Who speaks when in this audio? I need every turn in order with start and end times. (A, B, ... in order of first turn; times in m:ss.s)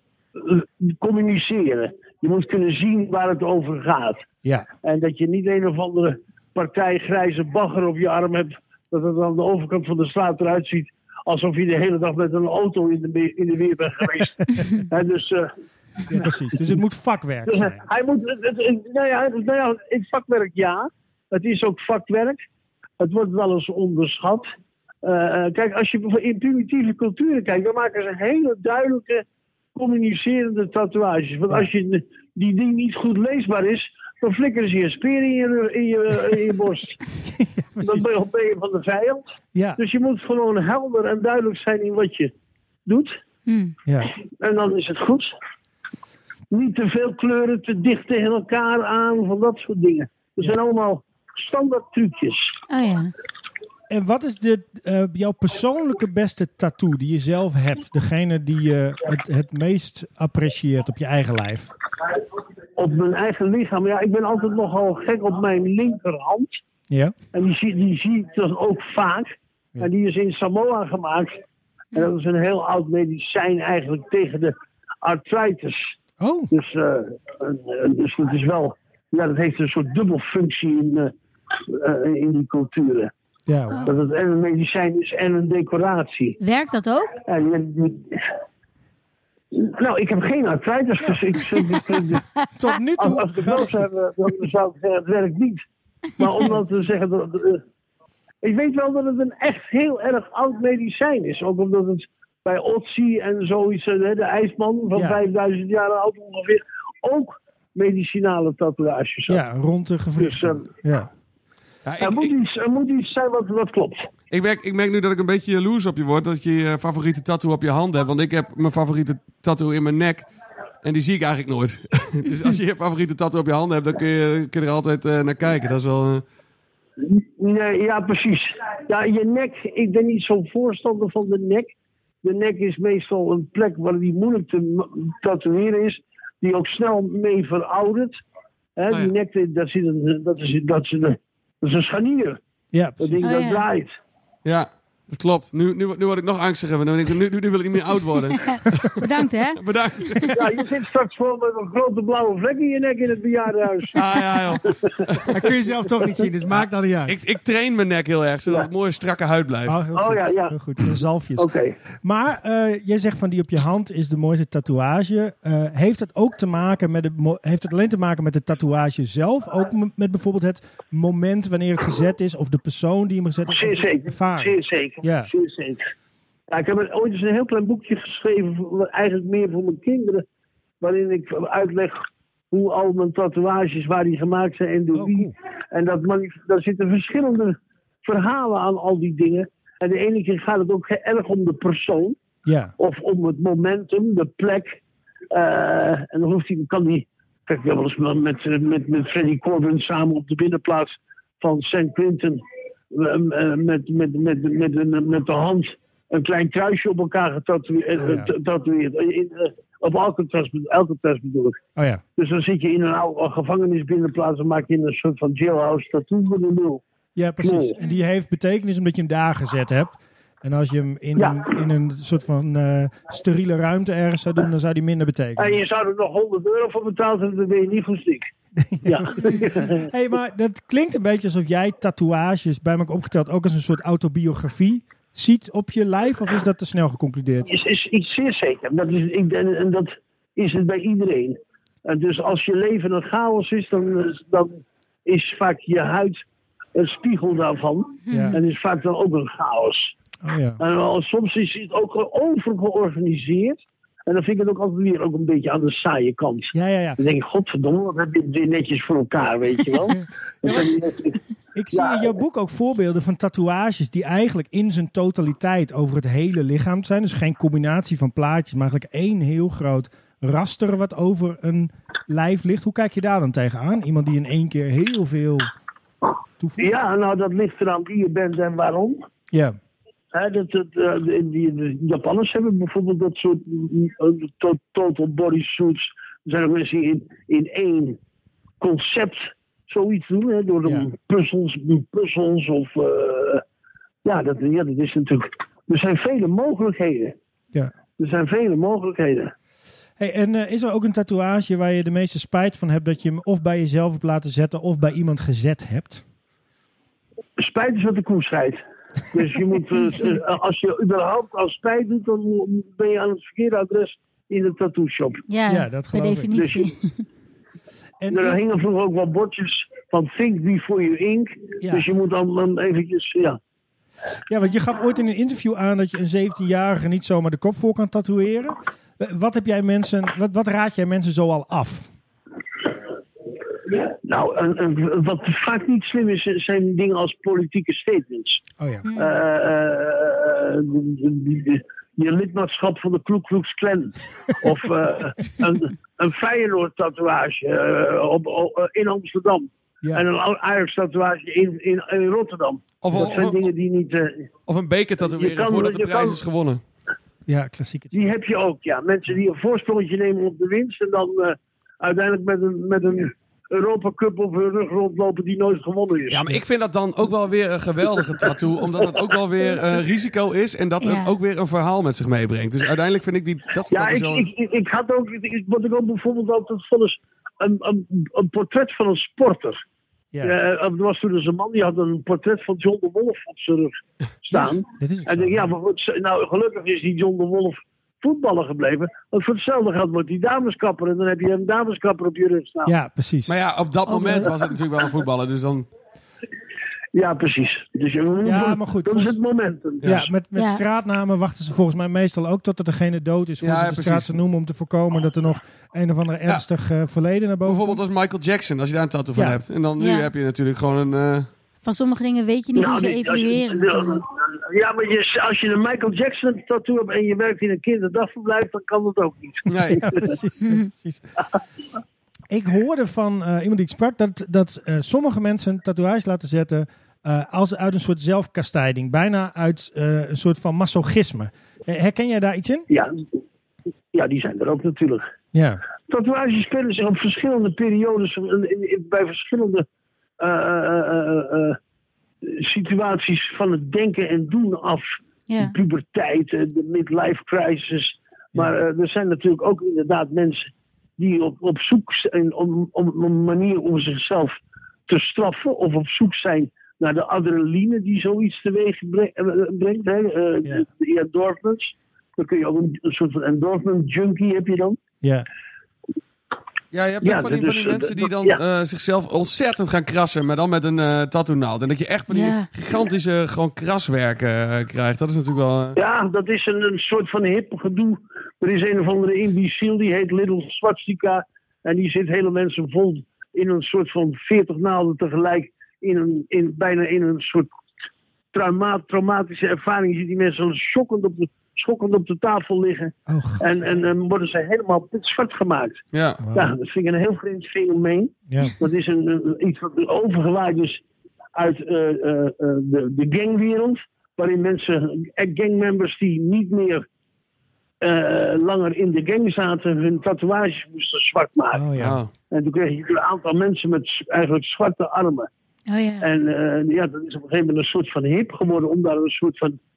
0:00.4-0:04.2 A
0:04.8-0:15.5 A
0:16.1-0:17.8 B
0:17.5-0:22.4 A
0:23.0-0:24.5 A
0:25.0-0:29.2 A
0:29.8-0:37.0 A
0:37.3-0:38.1 B
0:37.8-0:39.3 A
0:39.6-0:39.8 B
0:39.8-0:42.3 A
0:42.9-0:43.2 A
0:43.5-0:43.8 C
0:43.9-0:44.1 B
0:44.3-0:45.3 A
0:46.5-0:52.6 A
0:52.7-0:53.1 C
0:53.9-1:01.7 B
1:02.8-1:06.6 A
1:06.9-1:07.2 B
1:07.3-1:11.4 A
1:11.9-1:15.9 A
1:16.2-1:16.5 B
1:16.5-1:23.1 A
1:23.5-1:23.9 B
1:23.9-1:26.4 A
1:26.4-1:27.2 C
1:27.2-1:28.2 A
1:29.5-1:32.2 A
1:32.6-1:33.9 B
1:33.0-1:35.6 A
1:36.2-1:37.6 A
1:38.4-1:49.4 A
1:44.9-1:45.2 B
1:49.3-1:51.1 B
1:50.2-1:50.6 A
1:51.8-1:52.3 D
1:52.0-1:54.1 A
1:54.3-2:00.3 D
2:00.8-2:06.2 D
2:07.0-2:18.2 A
2:18.8-2:22.4 A
2:22.7-2:23.3 B
2:23.0-2:23.9 A
2:23.2-2:23.7 C
2:24.4-2:30.4 D
2:28.3-2:29.6 C
2:30.3-2:35.1 A
2:34.0-2:35.4 D
2:35.3-2:37.2 B
2:36.5-2:39.8 D
2:39.7-2:41.5 B
2:39.9-2:40.6 A
2:41.4-2:41.8 A
2:42.0-2:55.3 B
2:53.5-2:55.8 A
2:56.5-3:00.2 A
3:00.8-3:12.2 A
3:04.9-3:05.3 B
3:12.4-3:12.7 B
3:12.8-3:14.8 A
3:15.3-3:31.6 A
3:28.0-3:28.3 B
3:31.8-3:32.0 B
3:32.2-3:36.8 A
3:37.2-3:45.6 B
3:37.4-3:37.8 A
3:41.2-3:41.6 A
3:45.4-3:48.3 A
3:48.6-3:57.5 B
3:48.8-3:49.9 A
3:57.5-4:06.2 A
4:06.8-4:09.9 A
4:08.1-4:08.4 C
4:08.1-4:08.4 B
4:10.2-4:10.6 B
4:10.6-4:21.2 A
4:16.5-4:17.0 B
4:19.9-4:20.8 B
4:21.6-4:35.5 B
4:21.7-4:22.2 A
4:36.4-4:36.8 B
4:36.6-4:39.0 A
4:40.1-4:48.0 A
4:48.6-4:53.4 A
4:50.6-4:50.9 B
4:54.0-4:57.2 A
4:58.0-4:59.3 A
5:00.0-5:06.0 B
5:07.4-5:08.6 A
5:09.1-5:15.2 A
5:15.3-5:17.0 C
5:15.5-5:16.4 B
5:16.3-5:16.7 A
5:18.0-5:18.4 B
5:18.1-5:23.4 A
5:21.6-5:21.9 B
5:24.3-5:31.9 B
5:33.9-5:38.4 A
5:38.6-5:38.9 B
5:38.8-5:39.1 C
5:39.0-5:54.3 A
5:52.8-5:53.5 D
5:54.5-5:56.6 D
5:55.1-5:56.2 A
5:57.3-5:58.0 B
5:57.9-6:06.3 A
6:06.1-6:14.3 D
6:10.8-6:11.1 C
6:13.7-6:19.6 A
6:20.2-6:32.7 A
6:24.3-6:25.6 B
6:32.6-6:33.4 B
6:33.3-6:35.7 D
6:33.9-6:34.3 C
6:36.9-6:40.0 A
6:38.2-6:39.2 B
6:39.8-6:47.8 B
6:40.4-6:40.6 C
6:43.4-6:44.2 D
6:47.4-6:51.3 D
6:49.8-6:50.1 C
6:51.6-6:54.0 C
6:52.6-7:00.1 A
6:59.5-6:59.8 D
6:59.7-7:01.1 B
7:00.4-7:00.7 C
7:02.3-7:12.7 B
7:12.7-7:13.0 A
7:13.9-7:15.0 A
7:15.3-7:15.6 B
7:15.9-7:19.7 A
7:20.2-7:21.6 A
7:22.2-7:24.8 A
7:25.3-7:25.6 C
7:25.4-7:44.8 A
7:45.0-7:45.3 B
7:46.7-7:55.8 D
7:47.0-7:48.4 A
7:52.1-7:52.5 C
7:55.8-8:07.6 A
8:08.3-8:15.8 A
8:13.1-8:13.9 B
8:15.9-8:16.2 D
8:16.2-8:16.5 B
8:16.3-8:20.8 A
8:18.3-8:18.6 B
8:21.4-8:26.8 A
8:27.8-8:31.7 A
8:31.5-8:32.0 B
8:31.8-8:32.1 D
8:32.3-8:35.3 A
8:35.7-8:36.1 C
8:36.0-8:39.6 A